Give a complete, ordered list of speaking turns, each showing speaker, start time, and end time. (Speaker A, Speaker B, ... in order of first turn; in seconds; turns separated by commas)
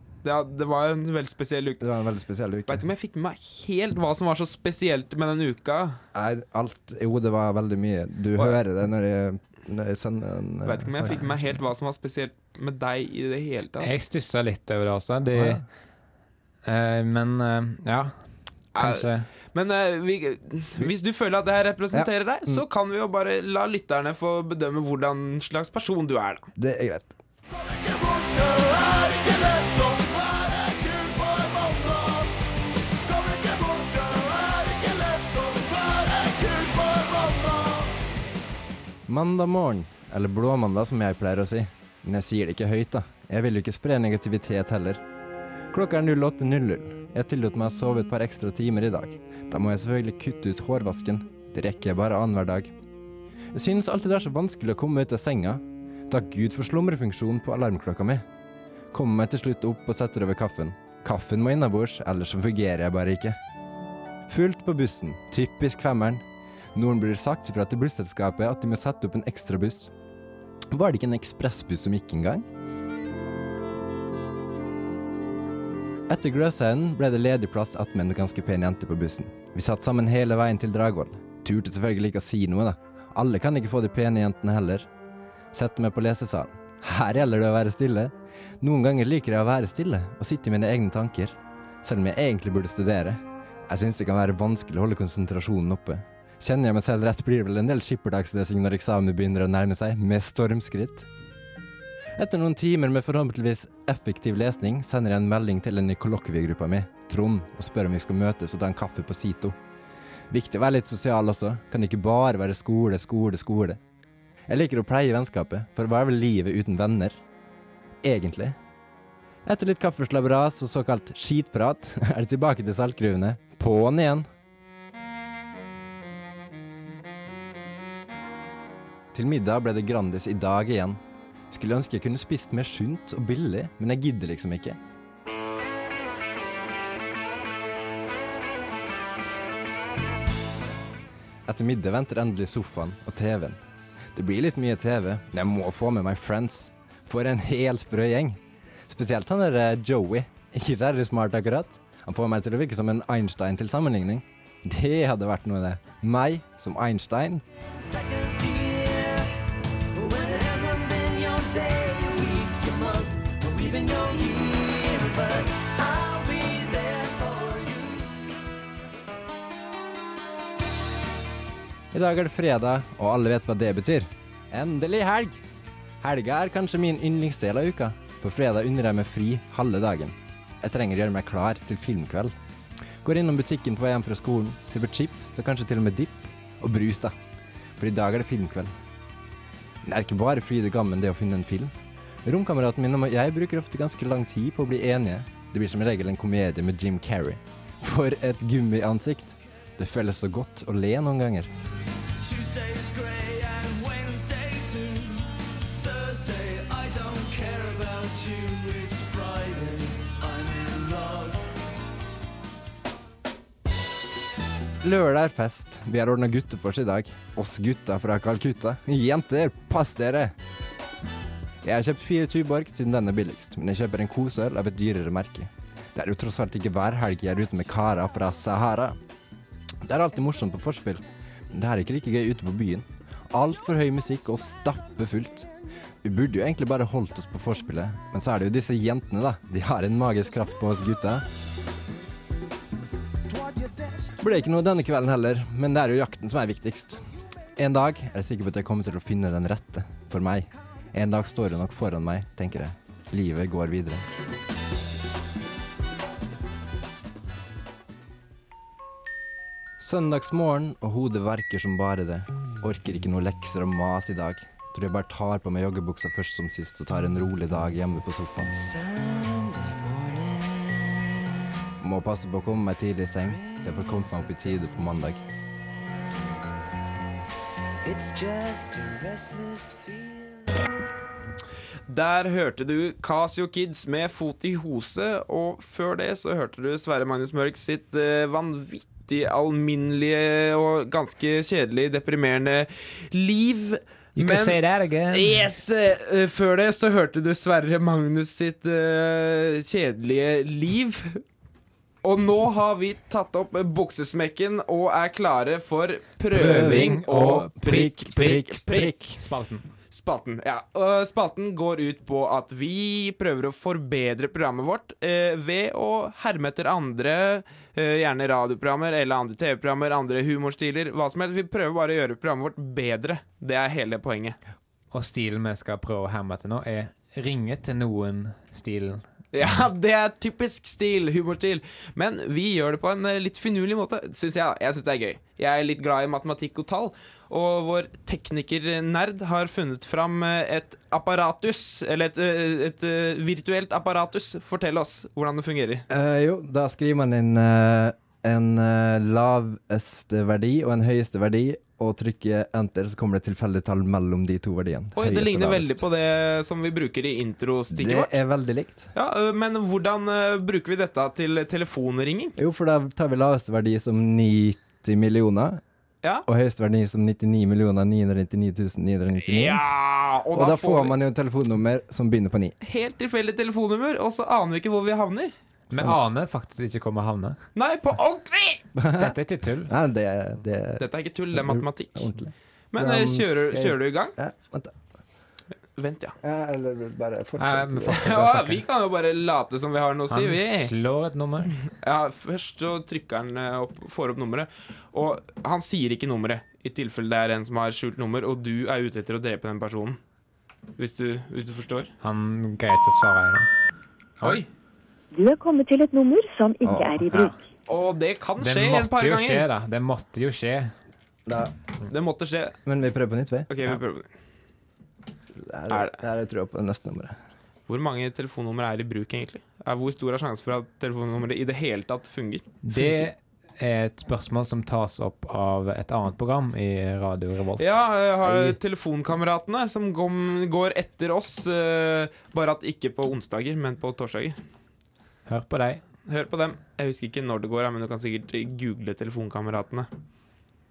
Speaker A: 0.2-1.9, Speaker B: 1.8-2.9, Speaker A: 2.7-6.0, Speaker B: 6.1-11.2, Speaker A: 10.6-13.9, Speaker C: 13.8-15.6, Speaker B: 15.3-15.6, Speaker C: 16.6-18.1, Speaker A: 18.7-26.5, Speaker C: 18.8-19.3, Speaker B: 21.9-22.6, Speaker B: 26.6-27.1, Speaker D: 27.5-32.4, Speaker D: 33.0-38.0, Speaker B: 39.1-45.0, Speaker B: 45.7-52.7, Speaker B: 53.5-58.2, Speaker B: 58.9-63.4, Speaker B: 64.3-66.2, Speaker B: 66.7-69.9, Speaker B: 70.7-72.5, Speaker B: 76.1-84.9, Speaker B: 85.5-101.1, Speaker B: 102.2-109.6, Speaker B: 110.3-113.8, Speaker B: 114.5-117.2, Speaker B: 118.0-118.5, Speaker B: 119.4-124.3, Speaker B: 129.1-131.0, Speaker B: 131.5-134.8, Speaker B: 141.4-143.6, Speaker B: 144.1-157.4, Speaker D: 157.6-159.3, Speaker D: 159.9-168.3, Speaker B: 171.9-175.4, Speaker B: 176.0-182.3, Speaker B: 183.0-187.1, Speaker B: 187.8-188.7, Speaker B: 189.8-191.7, Speaker B: 192.2-201.5, Speaker D: 202.2-211.4, Speaker B: 214.8-220.3, Speaker B: 221.6-228.9, Speaker B: 229.8-235.5, Speaker B: 236.0-241.2, Speaker D: 243.3-244.0, Speaker B: 244.2-247.0, Speaker B: 247.6-254.0, Speaker B: 259.8-268.6, Speaker D: 268.5-271.2, Speaker B: 271.8-275.2, Speaker D: 273.2-274.8, Speaker D: 275.6-276.1, Speaker D: 277.8-280.5, Speaker A: 281.9-294.6, Speaker C: 294.1-295.4, Speaker A: 295.1-301.2, Speaker A: 302.0-308.9, Speaker C: 306.3-307.6, Speaker B: 306.3-309.2, Speaker C: 309.1-309.6, Speaker A: 309.9-324.4, Speaker C: 324.9-329.0, Speaker A: 329.3-345.8, Speaker B: 345.9-355.8, Speaker A: 354.9-358.1, Speaker B: 357.7-358.9, Speaker A: 358.9-362.4, Speaker B: 362.4-365.6, Speaker B: 366.2-369.6, Speaker A: 369.2-370.9, Speaker B: 370.3-372.5, Speaker A: 372.6-375.3, Speaker C: 375.7-377.4, Speaker A: 377.6-378.6, Speaker B: 378.7-384.8, Speaker C: 378.9-379.7, Speaker A: 380.8-382.1, Speaker A: 382.7-384.1, Speaker A: 385.8-386.1, Speaker B: 386.2-388.2, Speaker C: 387.4-388.6, Speaker A: 387.9-390.7, Speaker C: 390.1-391.6, Speaker A: 391.7-400.0, Speaker A: 400.8-401.9, Speaker C: 402.0-403.5, Speaker E: 405.1-407.4, Speaker B: 406.6-407.1, Speaker A: 407.7-409.4, Speaker C: 408.4-410.7, Speaker B: 411.3-411.5, Speaker A: 411.9-412.6, Speaker B: 412.6-413.5, Speaker A: 413.5-414.1, Speaker B: 415.3-417.1, Speaker A: 415.7-416.0, Speaker A: 417.7-423.0, Speaker C: 422.6-427.7, Speaker A: 427.6-434.4, Speaker B: 428.3-428.5, Speaker C: 435.3-435.8, Speaker A: 436.1-439.9